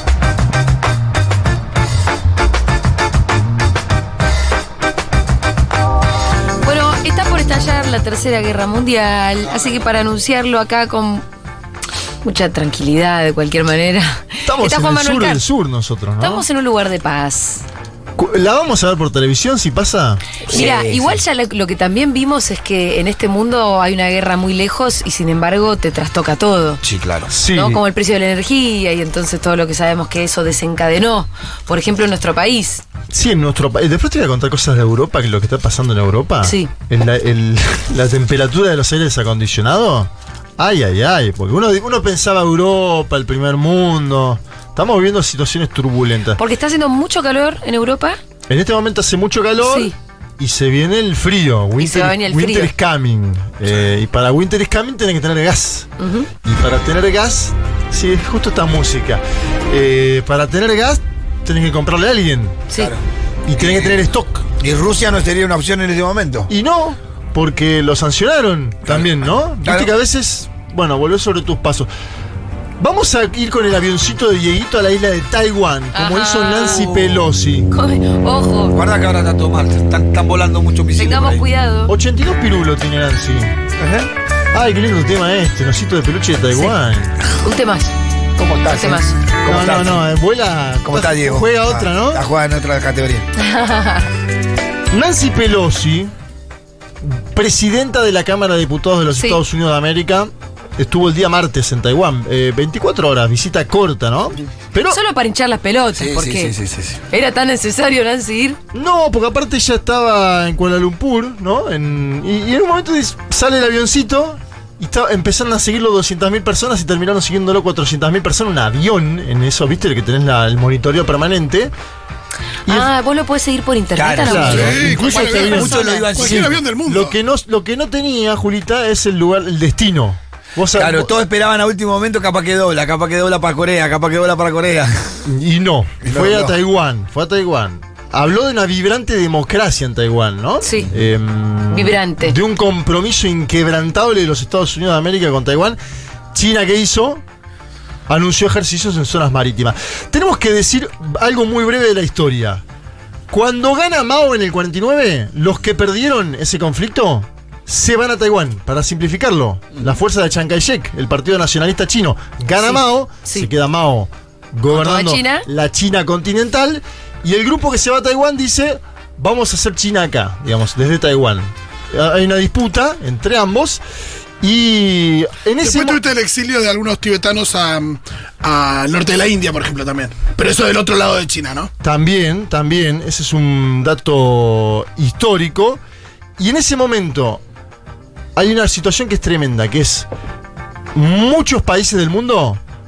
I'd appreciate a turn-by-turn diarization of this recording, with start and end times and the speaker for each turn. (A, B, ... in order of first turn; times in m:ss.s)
0:06.6-0:11.2 A
0:09.5-0:09.8 B
0:12.2-0:15.4 A
0:14.4-0:16.4 C
0:16.2-0:17.6 A
0:18.2-0:20.3 C
0:20.5-0:21.2 B
0:20.5-0:26.8 A
0:26.8-0:27.3 B
0:27.3-0:27.8 C
0:27.5-0:32.8 A
0:33.1-0:46.4 C
0:36.4-0:36.7 A
0:46.4-0:48.2 A
0:48.5-0:55.9 C
0:49.6-0:49.9 A
0:51.8-0:52.7 A
0:56.0-0:56.3 A
0:56.4-1:02.6 C
1:02.7-1:03.0 B
1:03.4-1:04.4 C
1:03.6-1:04.0 B
1:04.6-1:06.5 B
1:06.5-1:11.9 C
1:09.6-1:09.9 B
1:12.8-1:17.7 C
1:15.9-1:17.0 A
1:17.7-1:18.7 A
1:18.7-1:21.4 B
1:21.0-1:21.9 A
1:21.9-1:23.5 C
1:23.8-1:24.1 B
1:24.5-1:27.2 C
1:27.4-1:27.9 A
1:28.4-1:30.0 B
1:28.6-1:29.2 A
1:29.4-1:32.2 C
1:30.8-1:33.2 B
1:33.4-1:34.1 A
1:34.9-1:36.1 C
1:37.0-1:45.0 C
1:44.9-1:46.5 A
1:46.0-1:47.0 B
1:47.1-1:48.6 A
1:48.7-2:01.7 C
2:02.7-2:06.1 A
2:04.0-2:06.6 B
2:04.2-2:11.1 C
2:04.5-2:07.1 D
2:10.7-2:15.2 B
2:15.2-2:25.8 C
2:16.0-2:16.5 B
2:20.6-2:20.9 A
2:21.7-2:22.4 A
2:26.3-2:27.2 C
2:28.1-2:32.6 C
2:33.3-2:53.8 C
2:42.6-2:43.5 A
2:44.7-2:45.4 A
2:54.4-2:56.0 C
2:55.6-3:01.7 D
3:01.8-3:05.8 C
3:06.4-3:07.4 C
3:08.4-3:10.1 C
3:10.9-3:12.6 C